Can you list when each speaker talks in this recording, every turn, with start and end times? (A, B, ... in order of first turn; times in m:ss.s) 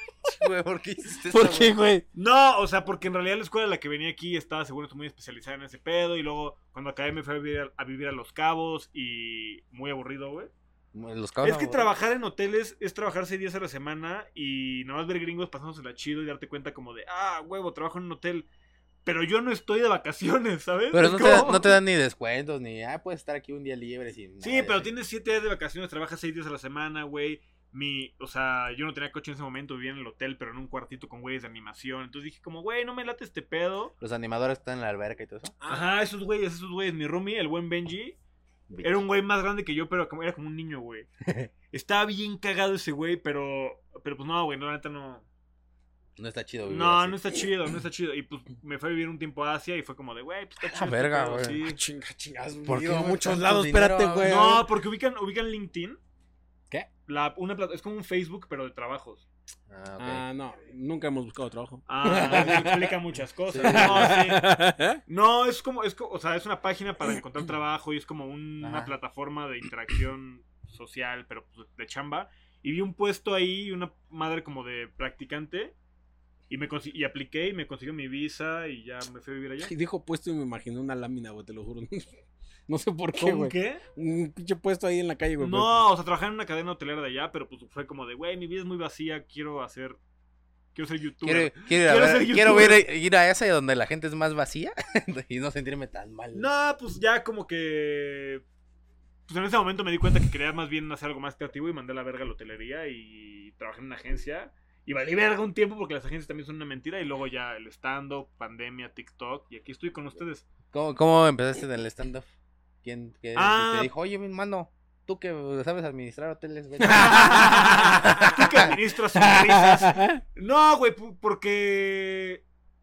0:00.2-0:01.8 A
0:01.3-0:02.0 B
0:02.1-0:10.5 C
0:10.9-0:11.9 A
0:11.4-0:18.4 C
0:19.0-0:21.8 C
0:20.9-0:24.9 A
0:24.4-0:33.9 C
0:34.0-0:35.5 A
0:35.6-0:36.0 B
0:35.7-0:38.2 C
0:38.7-0:39.0 A
0:38.8-0:41.1 C
0:41.2-0:41.5 A
0:41.7-0:45.2 C
0:46.2-0:47.2 A
0:46.6-0:51.8 C
0:50.6-0:51.6 A
0:51.4-0:54.7 B
0:52.6-0:54.4 A
0:54.2-0:56.0 C
0:57.1-0:59.2 C
0:59.7-1:00.2 A
1:00.0-1:02.9 B
1:01.9-1:04.4 C
1:03.5-1:04.2 A
1:03.6-1:05.0 B
1:05.1-1:15.7 C
1:08.6-1:08.9 A
1:16.5-1:19.7 C
1:19.6-1:22.1 B
1:22.7-1:25.9 B
1:23.2-1:23.8 C
1:25.4-1:30.0 C
1:30.7-1:32.8 C
1:31.2-1:36.5 A
1:36.3-1:38.4 C
1:39.3-1:50.4 C
1:50.7-1:52.3 A
1:52.8-1:57.4 A
1:53.4-1:53.9 C
1:56.8-1:58.4 B
1:56.9-2:02.4 C
1:58.1-1:58.7 A
1:59.2-2:00.2 B